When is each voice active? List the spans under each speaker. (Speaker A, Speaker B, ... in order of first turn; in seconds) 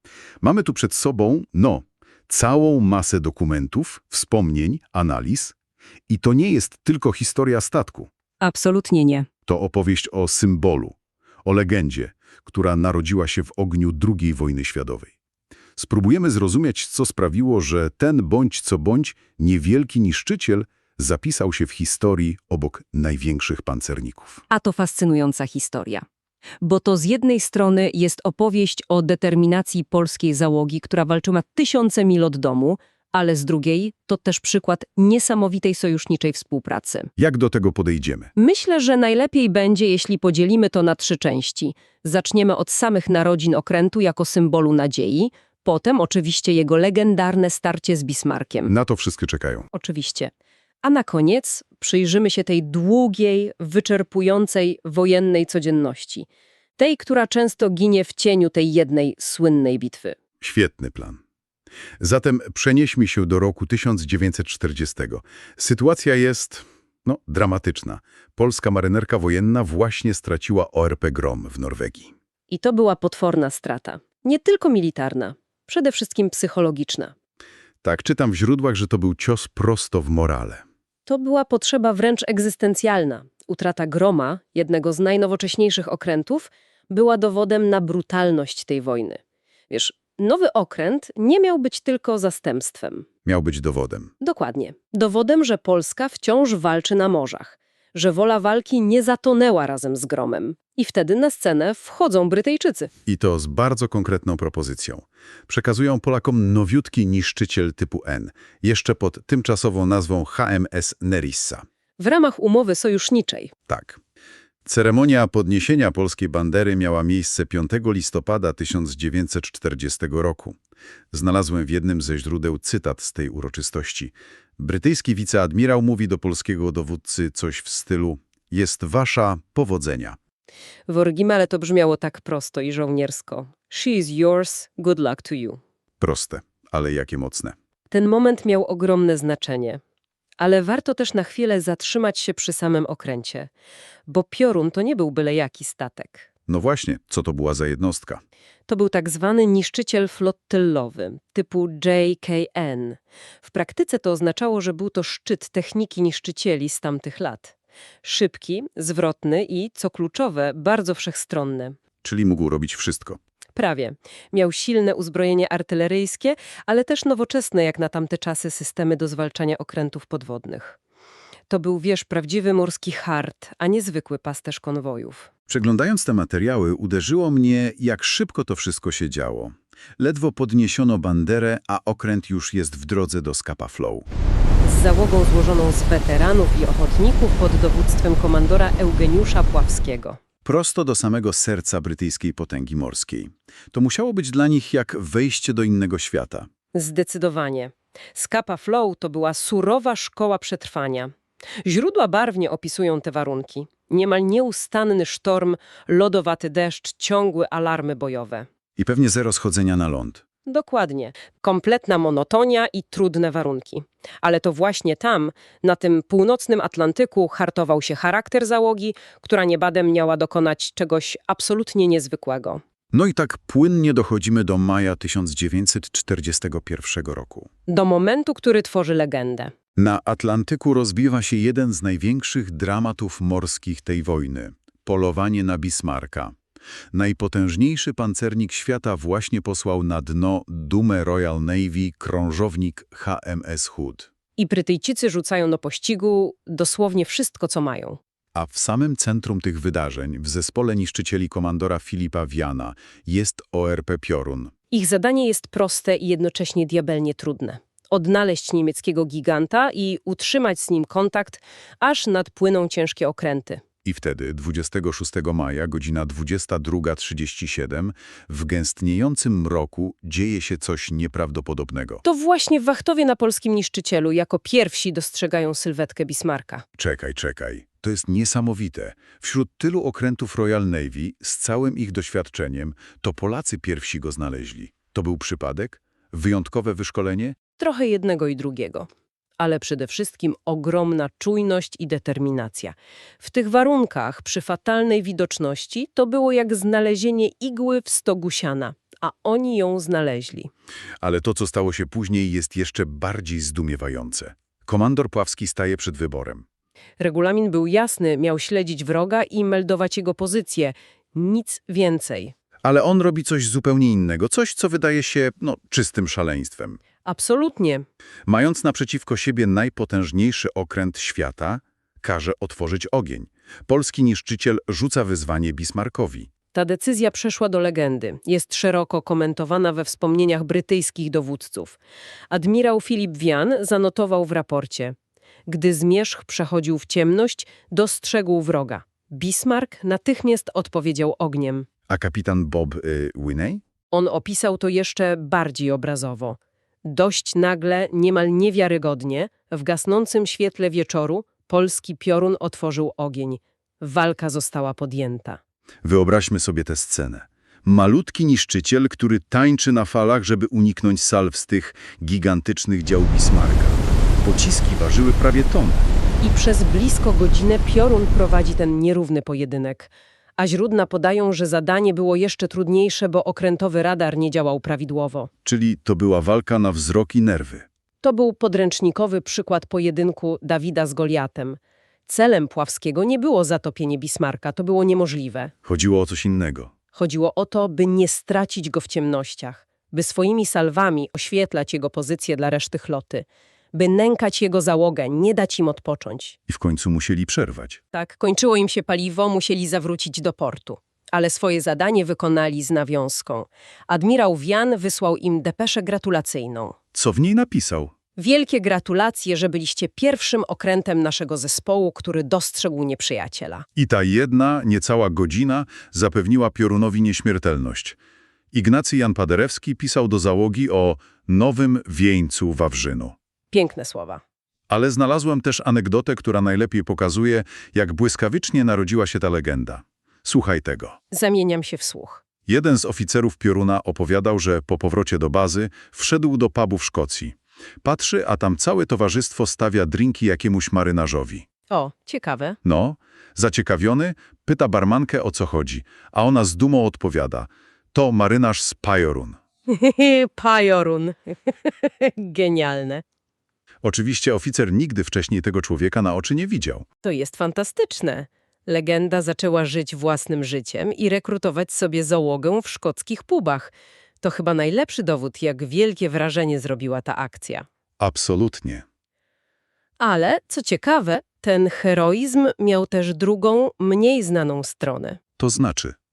Speaker A: 0.4-5.5, 6.1-8.1, 9.4-15.1, 15.8-24.4, 37.2-38.3, 48.6-49.7, 60.4-61.2, 62.0-72.1, 77.8-80.6, 93.2-94.1, 103.0-111.6, 113.7-114.0, 114.6-120.6, 121.1-130.2, 136.0-137.5, 146.5-148.2, 162.0-163.2, 175.5-184.1, 190.4-196.5, 208.8-210.2, 222.9-227.5, 229.8-236.3, 236.9-244.1, 248.3-254.5, 263.8-272.0, 276.8-287.4, 301.0-306.4, 312.6-316.8, 318.3-326.3, 341.9-343.6, 355.8-365.9, 375.4-377.6, 385.6-386.7, 396.5-397.8, 406.9-407.9, 413.8-418.0, 418.5-423.1, 424.7-431.0, 432.4-441.4, 442.6-449.4, 453.8-456.9, 468.0-468.8, 475.4-475.9
Speaker B: 8.4-9.3, 24.5-26.0, 26.6-37.1, 38.4-48.7, 49.7-50.3, 50.8-56.3, 56.8-60.1, 72.5-77.1, 81.1-93.1, 94.2-102.9, 112.0-113.5, 130.9-135.6, 137.9-139.8, 140.4-143.5, 144.1-146.3, 148.7-161.8, 163.6-170.8, 171.5-175.3, 184.6-190.2, 196.7-201.1, 201.6-208.5, 210.4-222.6, 227.7-229.5, 244.4-248.0, 254.7-263.6, 272.0-276.6, 287.6-288.9, 289.4-300.5, 307.0-312.3, 317.0-317.9, 326.5-331.8, 332.3-334.9, 335.5-341.7, 343.9-355.4, 366.2-375.3, 378.0-385.5, 386.9-396.4, 397.9-406.8, 408.2-413.6, 423.5-424.2, 431.1-432.2, 441.7-442.6, 449.7-453.0, 457.0-467.6, 470.0-475.2